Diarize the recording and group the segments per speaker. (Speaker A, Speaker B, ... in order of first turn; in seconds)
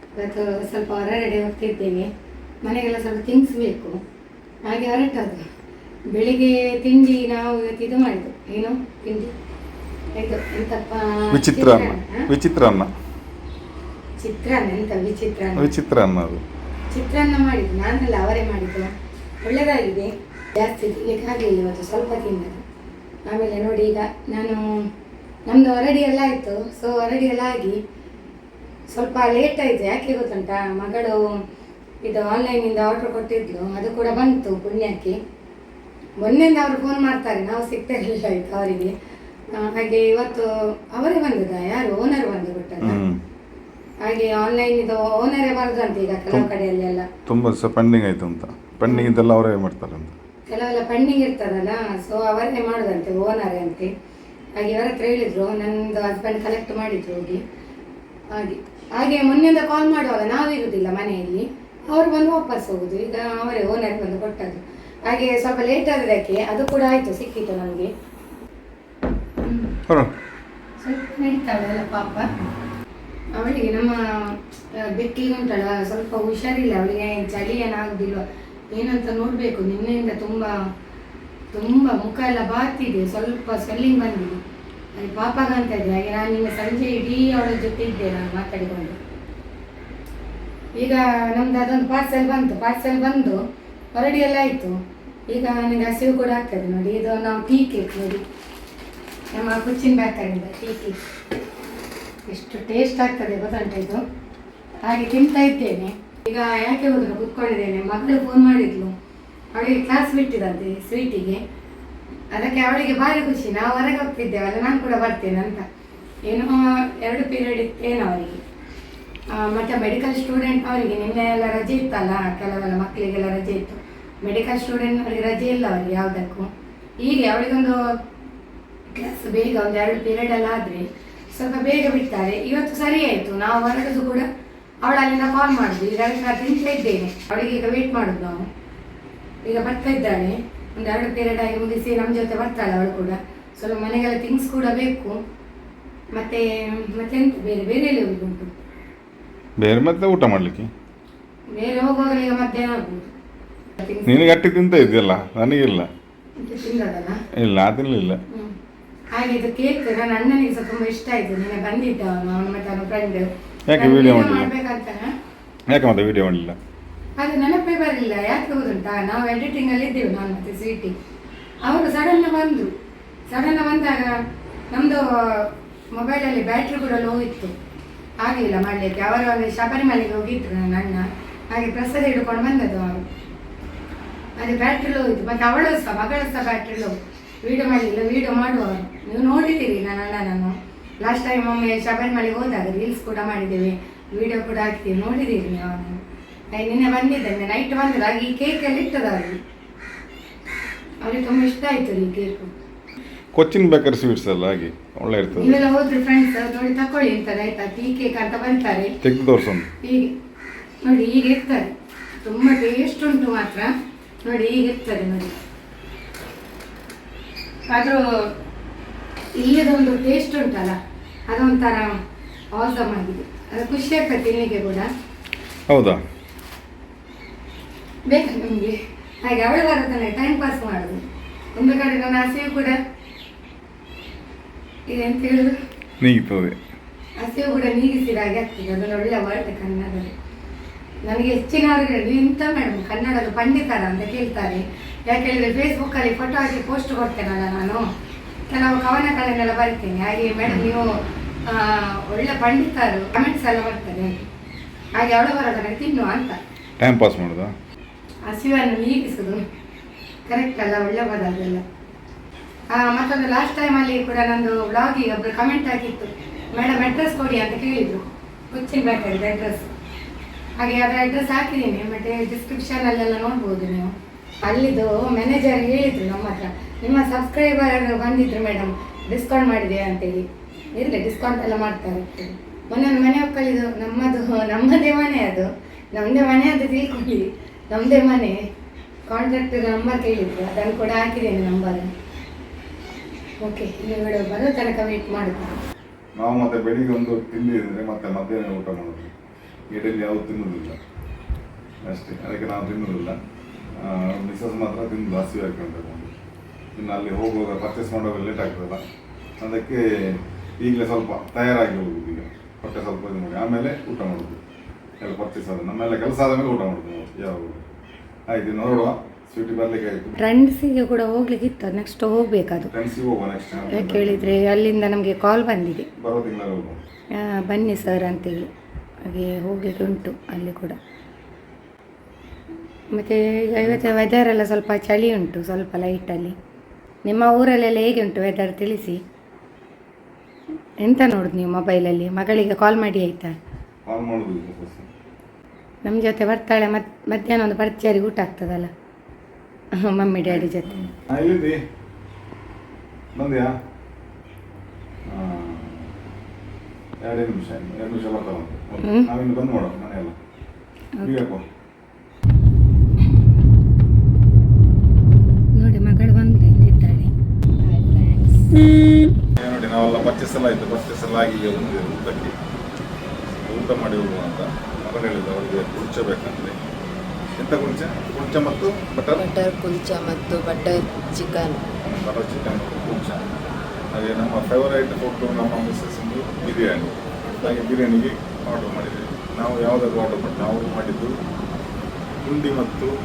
Speaker A: 0.1-2.1, 2.6-4.0, 4.7-5.4, 6.1-9.3, 10.2-12.2, 14.2-15.7, 16.9-22.6, 23.3-24.7, 25.5-27.8, 28.9-31.2, 32.0-35.2, 36.2-38.9, 39.5-43.0, 44.0-47.1, 48.9-49.1, 50.5-53.9, 54.6-57.4, 58.3-67.9, 69.4-69.8, 70.8-72.3, 73.4-80.5, 81.5-84.4, 85.0-89.0, 90.8-93.4, 93.9-94.8, 95.3-98.2, 99.3-101.0, 102.3-104.0, 104.8-108.9, 109.5-111.4, 112.3-115.6, 116.3-118.4, 119.3-126.5, 127.0-127.8, 128.9-134.3, 134.8-138.5, 139.5-145.2, 146.2-148.6, 151.5-153.1, 153.8-154.2, 156.4-157.2, 159.1-165.1, 167.2-170.9, 171.7-172.7, 173.3-174.2, 174.7-177.5, 178.2-183.0, 184.4-196.0, 196.5-199.4, 201.0-202.5, 205.3-208.9, 209.8-210.1, 210.8-211.7, 212.2-213.7, 214.2-215.3, 217.7-218.0, 219.4-220.8, 221.3-221.9, 222.5-224.9, 228.1-231.0, 231.6-232.8, 234.9-235.5, 237.2-240.1, 241.1-247.8, 248.5-250.9, 251.5-254.2, 255.0-256.4, 258.3-259.4, 260.3-261.6, 262.7-269.7, 270.6-273.9, 274.4-280.2, 280.8-288.4, 289.1-291.9, 293.4-295.6, 320.2-322.7, 323.7-325.9, 327.1-328.5, 329.0-330.8, 332.9-336.3, 337.1-339.0, 340.8-343.3, 345.8-348.7, 349.8-350.7, 358.8-359.1, 361.0-361.2, 365.6-367.1
Speaker B: 11.3-12.9, 15.6-16.4, 42.8-43.2, 47.3-50.1, 149.6-150.7, 154.0-155.9, 157.4-158.2, 163.7-164.5, 165.7-166.6, 203.3-205.6, 209.0-209.7, 225.7-226.0, 236.0-236.6, 256.8-257.5, 296.2-299.1, 299.7-300.8, 301.9-303.2, 303.8-306.1, 306.8-308.8, 309.4-314.4, 315.0-317.6, 318.3-320.2, 322.7-324.4, 326.0-326.8, 343.9-344.9, 350.2-351.6, 353.1-353.5, 355.1-355.9, 357.0-360.1, 361.0-361.4, 369.4-372.3, 373.4-376.6, 377.4-379.2, 381.8-383.2, 383.9-391.2, 392.2-392.9
Speaker C: 367.6-368.5, 379.1-381.6